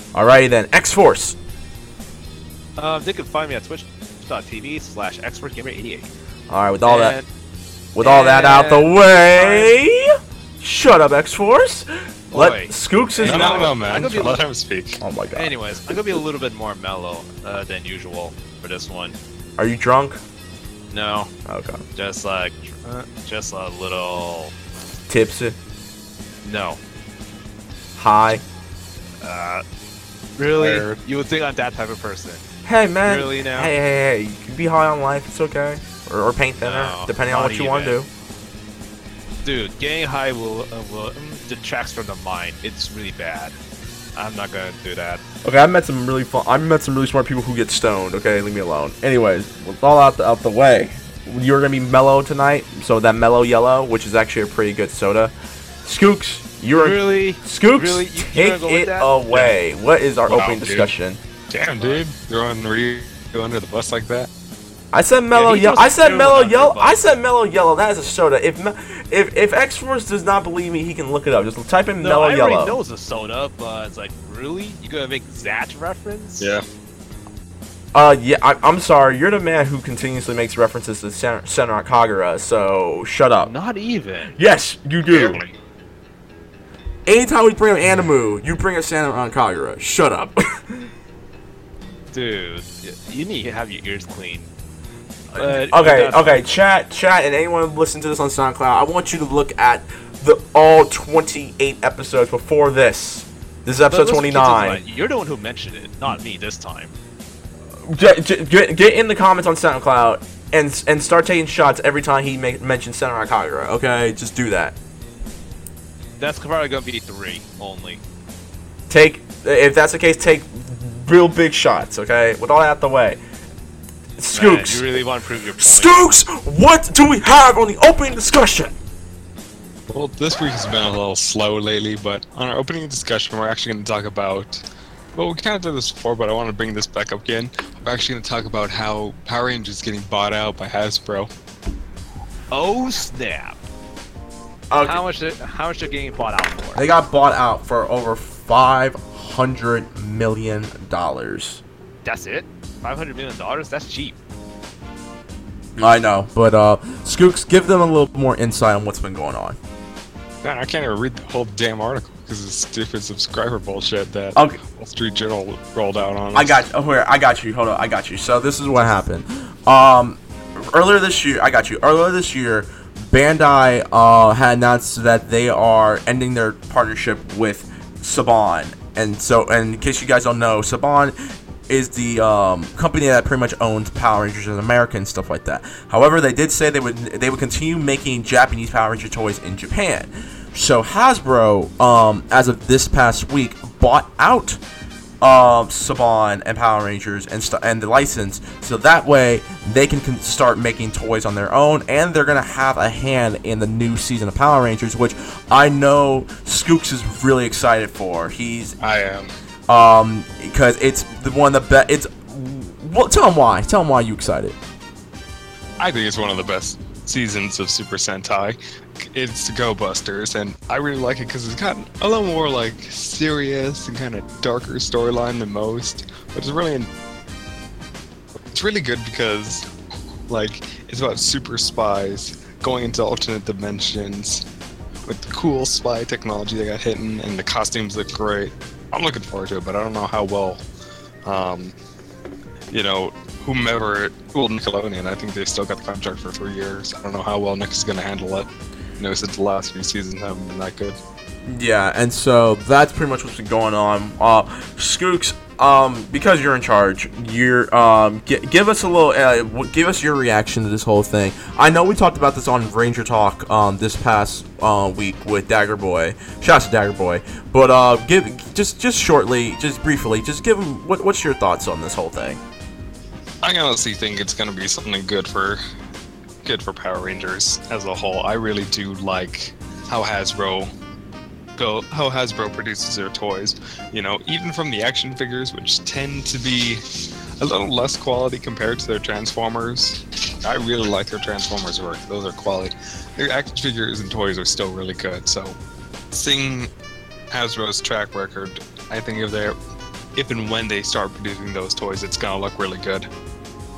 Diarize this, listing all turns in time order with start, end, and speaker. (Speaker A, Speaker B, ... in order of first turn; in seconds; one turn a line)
Speaker A: 0.1-1.4
Speaker B: 2.8-6.1
Speaker A: 6.5-7.2
Speaker B: 6.8-7.2
Speaker A: 7.9-14.3
Speaker B: 8.0-9.8
Speaker B: 12.3-14.4
Speaker C: 13.2-15.0
Speaker A: 15.0-16.1
Speaker B: 15.3-19.1
Speaker A: 19.6-20.2
Speaker B: 20.9-21.3
Speaker A: 21.5-21.8
Speaker B: 21.9-24.5
Speaker A: 25.1-25.6
Speaker B: 26.4-26.8
Speaker A: 27.9-28.4
Speaker B: 29.2-29.6
Speaker B: 30.4-32.5
Speaker A: 30.6-30.8
Speaker A: 32.6-38.1
Speaker B: 33.0-33.7
Speaker B: 36.6-38.0
Speaker B: 39.4-43.5
Speaker B: 44.1-45.2
Speaker A: 45.4-55.3
Speaker A: 55.8-61.2
Speaker B: 56.8-59.5
Speaker C: 60.3-60.9
Speaker C: 61.5-64.3
Speaker A: 64.9-72.8
Speaker B: 65.3-67.1
Speaker B: 72.0-76.5
Speaker C: 76.4-76.6
Speaker A: 77.9-83.5
Speaker B: 83.4-84.3
Speaker A: 84.3-85.4
Speaker B: 85.1-85.5
Speaker A: 87.0-90.9
Speaker B: 92.1-94.5
Speaker A: 95.3-104.8
Speaker B: 95.3-96.4
Speaker B: 103.9-106.9
Speaker A: 107.8-114.8
Speaker B: 116.2-118.0
Speaker A: 118.9-123.2
Speaker A: 124.2-124.8
Speaker B: 124.3-126.2
Speaker A: 125.6-128.8
Speaker C: 129.9-134.6
Speaker C: 135.1-141.3
Speaker B: 142.5-143.6
Speaker A: 144.7-145.0
Speaker B: 144.8-146.8
Speaker A: 146.8-151.6
Speaker B: 152.0-154.2
Speaker A: 155.8-159.6
Speaker C: 160.4-166.6
Speaker A: 166.3-181.2
Speaker A: 181.7-194.6
Speaker A: 195.2-208.8
Speaker C: 208.8-209.3
Speaker A: 209.7-214.6
Speaker C: 215.8-226.9
Speaker C: 228.5-229.7
Speaker C: 230.3-234.4
Speaker C: 235.1-240.6
Speaker C: 241.2-241.7
Speaker C: 242.7-248.5
Speaker C: 249.0-251.0
Speaker A: 251.4-272.4
Speaker C: 273.4-275.6
Speaker C: 276.4-280.7
Speaker C: 281.6-286.8
Speaker C: 287.4-295.6
Speaker C: 296.1-296.7
Speaker C: 297.3-299.6
Speaker C: 300.1-303.1